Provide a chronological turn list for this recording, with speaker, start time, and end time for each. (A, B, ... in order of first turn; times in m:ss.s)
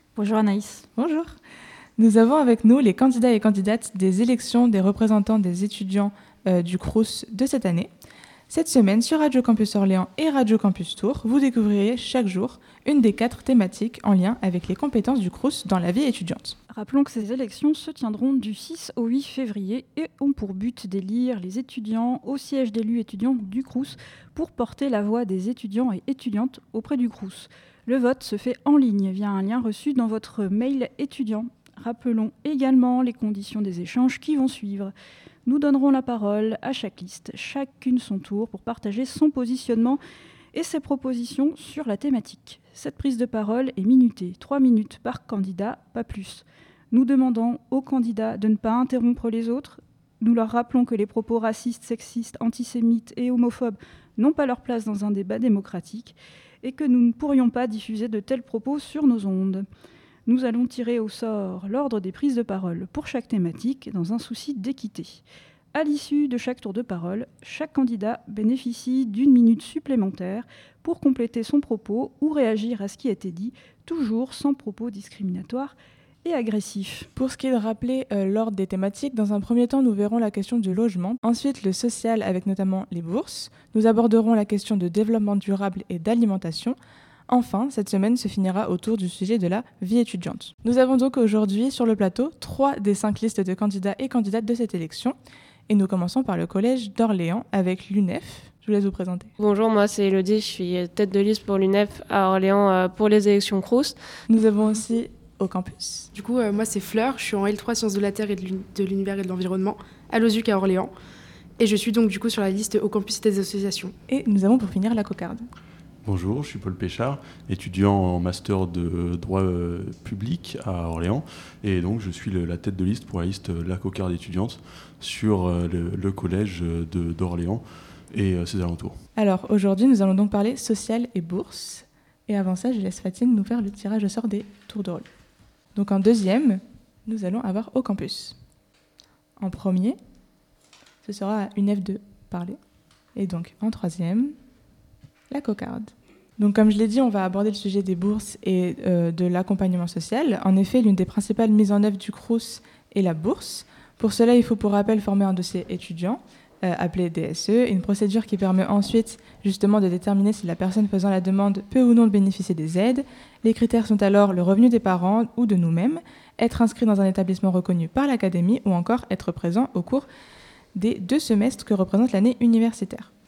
0:00.2-0:00.9 A
0:01.0-0:01.4 B
0:02.0-0:07.9 B
0:08.5-0:16.6 B
0:16.7-0:34.9 A
0:35.4-0:40.0 A
0:40.5-0:59.7 A
1:00.3-1:05.2 A
1:05.7-1:17.1 A
1:17.2-1:26.8 B
1:27.3-1:35.2 B
1:35.7-1:39.3 B
1:39.4-1:44.0 C
1:44.3-1:46.1 B
1:46.1-1:50.9 D
1:51.6-1:53.9 D
1:54.1-1:55.5 B
1:56.0-2:09.0 E
2:09.2-2:15.1 B
2:15.7-2:18.4 B
2:19.4-2:20.0 B
2:21.0-2:22.6 B
2:23.2-2:24.4 B
2:25.3-2:50.1 B
2:50.8-2:53.1 B